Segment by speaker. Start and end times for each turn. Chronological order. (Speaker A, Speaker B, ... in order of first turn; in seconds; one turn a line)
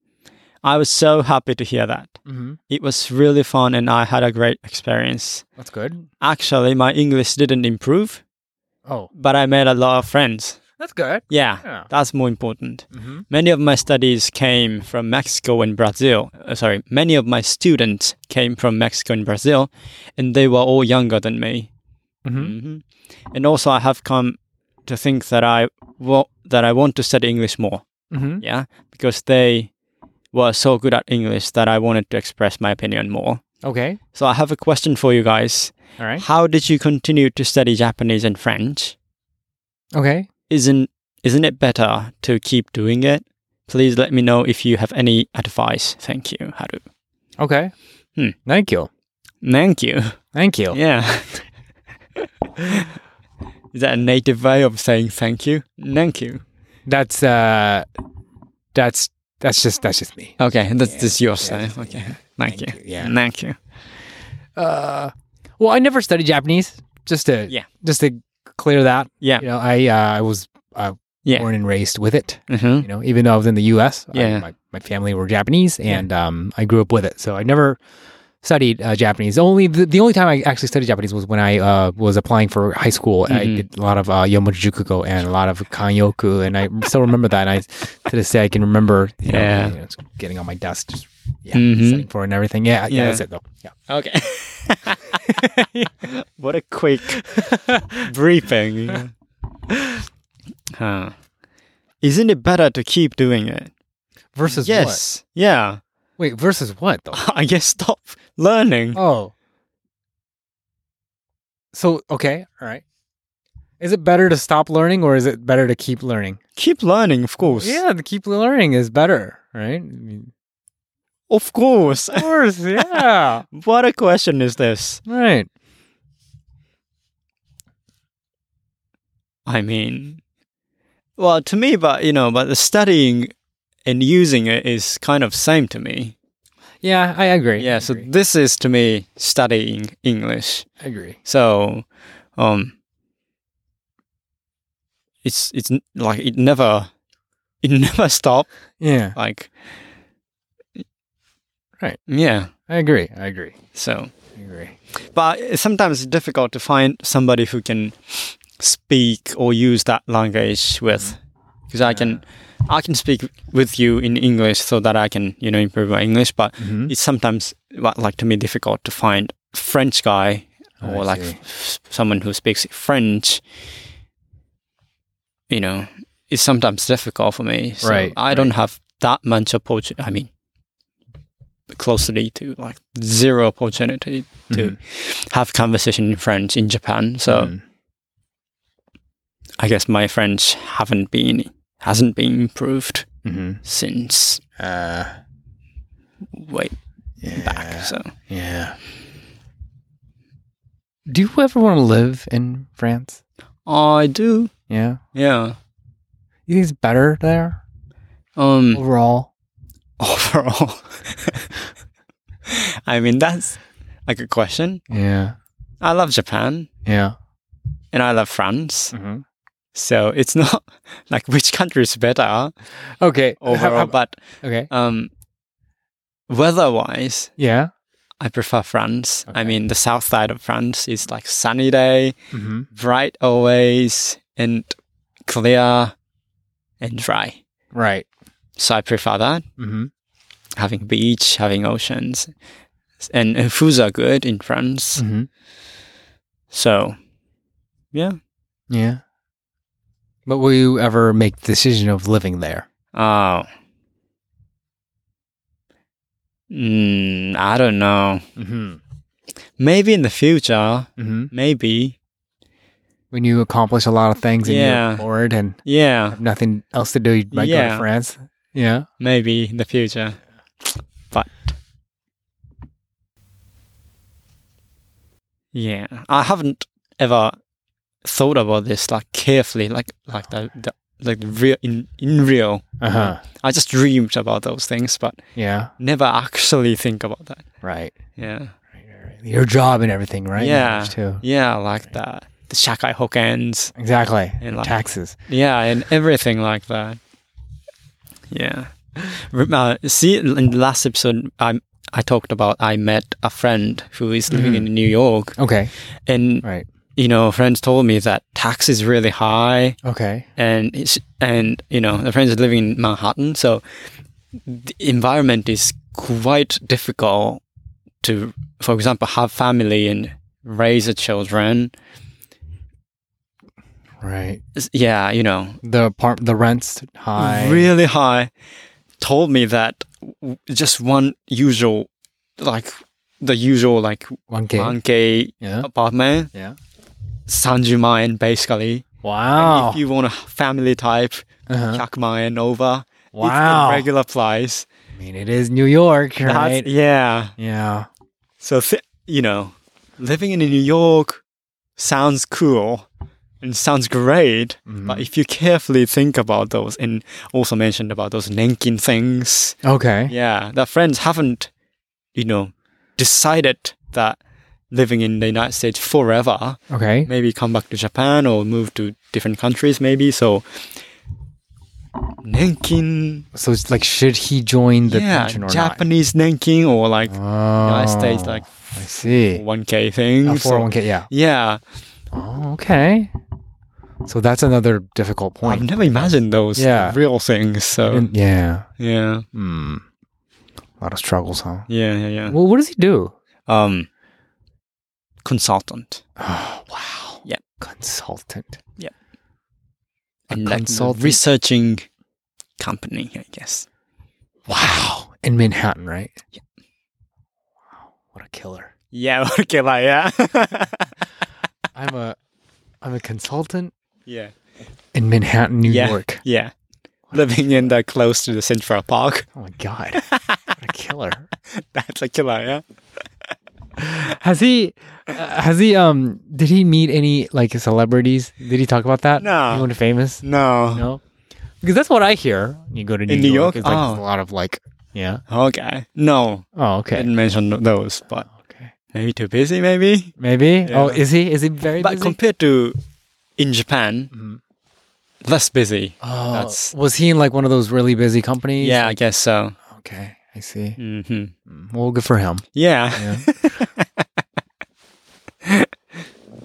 Speaker A: 0.6-2.2
Speaker B: 2.3-2.6
Speaker A: 2.7-5.5
Speaker B: 5.6-6.1
Speaker A: 6.2-8.2
Speaker A: 9.1-10.6
Speaker B: 10.8-11.9
Speaker A: 11.3-21.7
Speaker B: 12.9-13.2
Speaker B: 22.2-22.6
Speaker A: 22.4-27.8
Speaker B: 28.1-28.4
Speaker A: 28.4-29.7
Speaker A: 30.3-33.4
Speaker B: 33.6-34.0
Speaker A: 34.1-39.0
Speaker B: 36.0-36.2
Speaker B: 40.0-40.3
Speaker A: 40.5-46.8
Speaker B: 47.4-47.7
Speaker B: 48.5-48.9
Speaker A: 49.4-50.1
Speaker B: 50.3-50.8
Speaker A: 50.7-51.4
Speaker A: 52.2-53.0
Speaker A: 53.7-56.4
Speaker B: 56.9-57.9
Speaker B: 58.7-63.1
Speaker A: 60.4-63.6
Speaker B: 64.6-77.8
Speaker A: 72.5-72.9
Speaker A: 74.1-74.5
Speaker B: 78.4-93.7
Speaker A: 83.3-83.7
Speaker A: 89.3-89.8
Speaker A: 91.5-92.1
Speaker A: 92.9-93.2
Speaker A: 93.9-95.2
Speaker B: 95.2-95.9
Speaker A: 96.0-99.1
Speaker B: 97.4-98.1
Speaker A: 100.8-101.1
Speaker A: 102.0-103.7
Speaker B: 104.3-105.0
Speaker A: 104.5-105.8
Speaker B: 106.2-107.2
Speaker A: 107.1-109.0
Speaker B: 108.9-109.3
Speaker B: 111.7-112.8
Speaker B: 113.8-116.4
Speaker A: 116.6-117.8
Speaker B: 117.4-120.3
Speaker A: 121.3-125.0
Speaker B: 122.1-123.5
Speaker B: 125.1-125.5
Speaker A: 129.5-130.2
Speaker A: 131.2-133.3
Speaker A: 133.9-136.2
Speaker B: 136.8-138.1
Speaker A: 137.6-140.7
Speaker B: 140.8-141.2
Speaker A: 141.2-141.9
Speaker A: 142.4-142.7
Speaker A: 145.2-146.9
Speaker A: 147.6-148.5
Speaker B: 148.8-149.2
Speaker A: 149.2-149.5
Speaker A: 152.1-152.5
Speaker B: 152.7-153.6
Speaker A: 153.8-154.1
Speaker B: 154.4-154.8
Speaker A: 155.1-161.2
Speaker A: 161.7-173.4
Speaker B: 161.9-162.2
Speaker B: 166.6-166.9
Speaker B: 170.8-171.4
Speaker A: 175.5-180.3
Speaker B: 177.8-178.5
Speaker A: 181.7-187.5
Speaker B: 184.5-184.8
Speaker B: 187.3-187.6
Speaker A: 189.6-193.1
Speaker B: 193.2-193.6
Speaker A: 193.7-194.4
Speaker B: 194.6-195.1
Speaker A: 196.3-196.8
Speaker B: 197.2-198.8
Speaker A: 197.3-198.1
Speaker B: 201.1-203.2
Speaker A: 203.7-204.5
Speaker B: 204.7-205.0
Speaker A: 205.2-205.6
Speaker B: 206.5-207.6
Speaker A: 208.4-208.8
Speaker B: 208.7-209.3
Speaker A: 210.0-211.6
Speaker A: 212.5-214.8
Speaker B: 214.9-215.4
Speaker A: 215.8-216.7
Speaker B: 216.9-217.2
Speaker A: 217.9-218.9
Speaker B: 218.9-219.2
Speaker A: 219.7-222.5
Speaker B: 222.8-224.7
Speaker A: 223.4-224.2
Speaker A: 224.7-225.1
Speaker A: 226.3-227.3
Speaker B: 227.4-227.7
Speaker A: 228.2-232.2
Speaker B: 229.3-229.6
Speaker B: 232.3-232.7
Speaker A: 232.8-234.7
Speaker A: 235.3-235.9
Speaker A: 236.8-237.4
Speaker B: 237.7-238.1
Speaker A: 238.6-239.4
Speaker B: 239.6-239.9
Speaker A: 240.6-242.3
Speaker A: 243.0-245.0
Speaker B: 245.0-245.3
Speaker A: 246.5-247.0
Speaker B: 248.7-249.0
Speaker B: 250.3-252.7
Speaker A: 252.9-253.5
Speaker A: 256.5-258.2
Speaker B: 258.4-258.8
Speaker A: 259.6-262.0
Speaker B: 261.0-261.3
Speaker B: 263.1-265.6
Speaker A: 264.4-265.1
Speaker A: 265.6-266.2
Speaker B: 266.1-268.9
Speaker A: 267.3-267.9
Speaker A: 269.0-271.5
Speaker A: 275.5-277.4
Speaker A: 278.1-285.2
Speaker B: 282.8-283.2
Speaker B: 285.4-285.7
Speaker A: 285.8-287.4
Speaker B: 287.6-287.9
Speaker A: 288.2-288.5
Speaker B: 288.7-291.2
Speaker A: 290.4-293.7
Speaker B: 293.8-295.2
Speaker A: 294.4-294.8
Speaker A: 295.3-297.0
Speaker A: 298.3-305.4
Speaker B: 304.3-304.7
Speaker B: 305.4-305.7
Speaker A: 306.1-306.4
Speaker A: 307.0-309.8
Speaker B: 309.9-310.3
Speaker A: 310.4-313.6
Speaker A: 314.5-317.4
Speaker A: 318.0-321.7
Speaker B: 324.0-324.4
Speaker A: 324.6-325.6
Speaker B: 325.6-327.7
Speaker A: 327.2-328.3
Speaker A: 329.0-336.3
Speaker B: 334.3-334.8
Speaker B: 335.4-335.7
Speaker A: 337.3-338.8
Speaker B: 339.0-339.8
Speaker A: 339.4-344.7
Speaker B: 341.5-341.8
Speaker B: 343.1-343.9
Speaker B: 344.9-346.7
Speaker A: 346.2-347.3
Speaker B: 347.4-347.9
Speaker A: 348.4-351.2
Speaker A: 351.8-352.9
Speaker A: 353.4-359.6
Speaker B: 354.7-355.1
Speaker B: 359.6-360.1
Speaker A: 360.1-361.5
Speaker A: 362.1-364.2
Speaker A: 364.7-370.5
Speaker B: 366.7-367.1
Speaker A: 372.2-373.3
Speaker B: 373.3-375.9
Speaker A: 374.8-381.6
Speaker B: 377.1-379.4
Speaker B: 380.2-381.1
Speaker B: 382.1-383.1
Speaker B: 384.1-387.0
Speaker A: 385.4-388.1
Speaker B: 387.9-388.7
Speaker A: 388.8-389.2
Speaker B: 389.3-389.8
Speaker B: 390.8-391.7
Speaker A: 391.7-392.4
Speaker B: 392.3-393.1
Speaker A: 393.5-393.9
Speaker A: 395.2-396.0
Speaker B: 396.2-398.6
Speaker A: 400.3-401.9
Speaker B: 400.3-401.2
Speaker A: 402.6-403.7
Speaker B: 404.5-406.2
Speaker B: 408.1-408.7
Speaker A: 408.9-410.9
Speaker B: 411.8-412.2
Speaker B: 412.8-413.7
Speaker A: 414.1-414.3
Speaker B: 414.9-416.2
Speaker A: 415.7-416.5
Speaker B: 417.1-417.7
Speaker A: 417.1-419.3
Speaker B: 419.4-421.3
Speaker A: 420.0-420.4
Speaker A: 421.5-422.6
Speaker B: 423.8-430.2
Speaker A: 429.2-429.7
Speaker A: 430.2-430.9
Speaker B: 430.7-431.0
Speaker B: 431.6-435.2
Speaker A: 433.1-434.0
Speaker A: 435.3-438.3
Speaker B: 436.6-437.1
Speaker B: 438.3-438.7
Speaker A: 438.9-440.1
Speaker B: 440.2-442.2
Speaker A: 440.7-441.0
Speaker A: 441.8-442.8
Speaker A: 443.4-444.1
Speaker B: 444.1-444.4
Speaker A: 445.2-446.7
Speaker B: 446.0-449.0
Speaker A: 448.6-449.6
Speaker B: 449.7-450.8
Speaker A: 450.8-451.3
Speaker B: 451.5-452.4
Speaker A: 452.6-454.1
Speaker B: 453.0-453.3